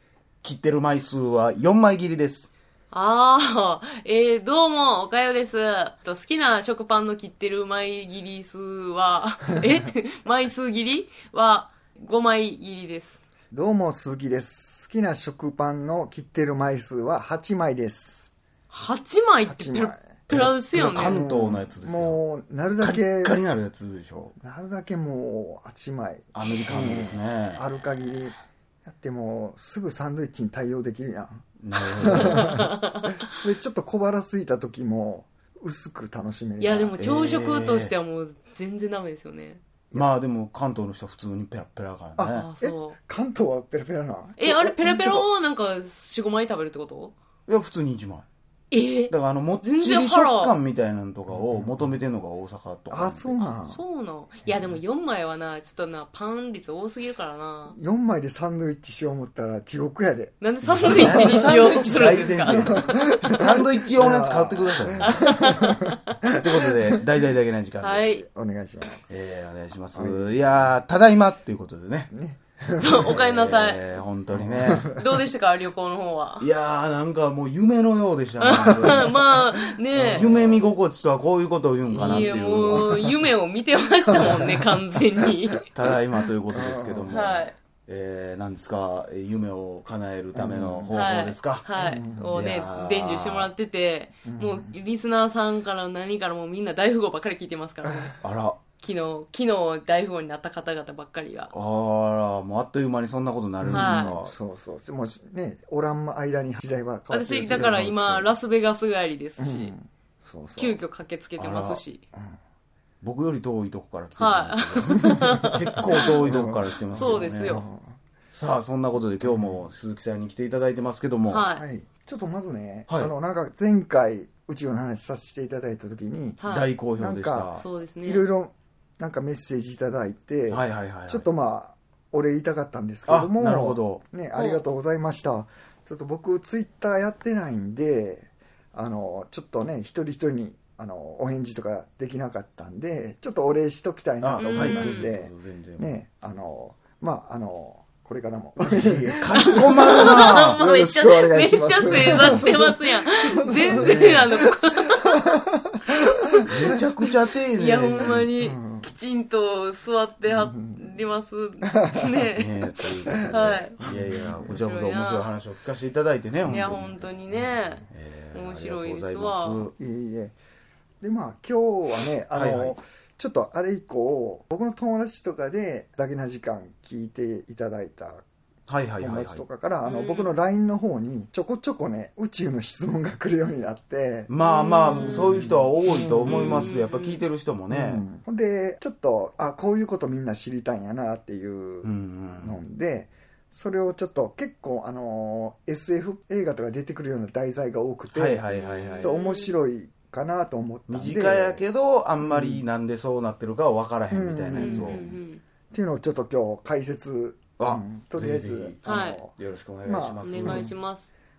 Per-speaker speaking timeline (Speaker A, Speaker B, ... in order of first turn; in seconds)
Speaker A: 0.4-2.5, 20.3-22.2, 22.8-24.3, 26.3-27.6, 31.6-32.6, 37.0-37.9, 39.9-42.5, 44.9-45.2, 47.5-48.2, 49.1-53.5, 60.7-65.3, 66.2-68.1, 69.1-72.1, 72.9-74.9, 76.4-79.2, 80.1-83.0, 85.7-91.7, 92.3-93.5, 98.2-98.6, 101.5-104.3, 107.4-108.3, 111.4-111.8, 113.0-117.6, 118.3-121.4, 126.4-127.6, 130.5-131.3, 133.1-134.0, 144.2-145.9, 148.6-150.6, 153.7-154.3, 156.5-158.3, 162.3-166.9, 167.9-169.7, 172.3-172.8, 178.7-179.4, 184.3-188.0, 191.8-192.6, 198.1-199.1, 200.9-205.0, 207.6-210.7
Speaker B: 2.9-13.2, 18.7-21.2, 32.1-33.1, 36.6-39.6, 42.3-43.0, 44.4-47.1, 48.7-50.6, 53.7-57.8, 60.4-63.6, 65.0-66.1, 67.8-68.2, 72.8-73.9, 74.8-76.5, 78.4-80.3, 81.9-85.7, 87.1-87.5, 90.9-98.2, 98.8-101.5, 103.7-104.2, 107.1-109.7, 110.6-112.0, 114.2-116.1, 116.9-117.6, 121.3-121.6, 126.4-126.7, 127.6-128.3, 134.3-134.6, 144.4-145.1, 149.3-156.8, 157.6-165.3, 166.4-169.7, 179.8-180.3, 184.4-185.5, 186.2-187.2, 198.5-199.5, 204.6-205.4, 208.8-209.2, 210.2-211.1
Speaker C: 13.5-18.3, 19.4-20.1, 20.9-23.4, 24.4-31.4, 32.0-37.0, 42.2-45.2, 51.3-52.0, 52.9-53.8, 54.5-54.8, 57.7-65.8, 66.5-67.0, 68.0-69.3, 69.9-70.7, 72.1-73.2, 74.3-75.2, 79.9-80.7, 82.7-83.0, 84.2-84.5, 86.5-87.1, 90.3-91.0, 91.8-92.3, 94.2-94.7, 97.8-98.1, 103.6-107.9, 109.4-110.8, 115.8-118.0, 119.2-119.6, 121.5-126.4, 127.0-154.5, 155.2-155.8, 158.0-158.9, 160.3-160.9, 161.8-162.2, 163.9-164.6, 169.8-170.3, 171.0-178.2, 179.0-184.3, 184.9-186.7, 187.7-198.4, 199.0-201.6, 202.2-202.6, 204.1-205.2, 205.7-210.8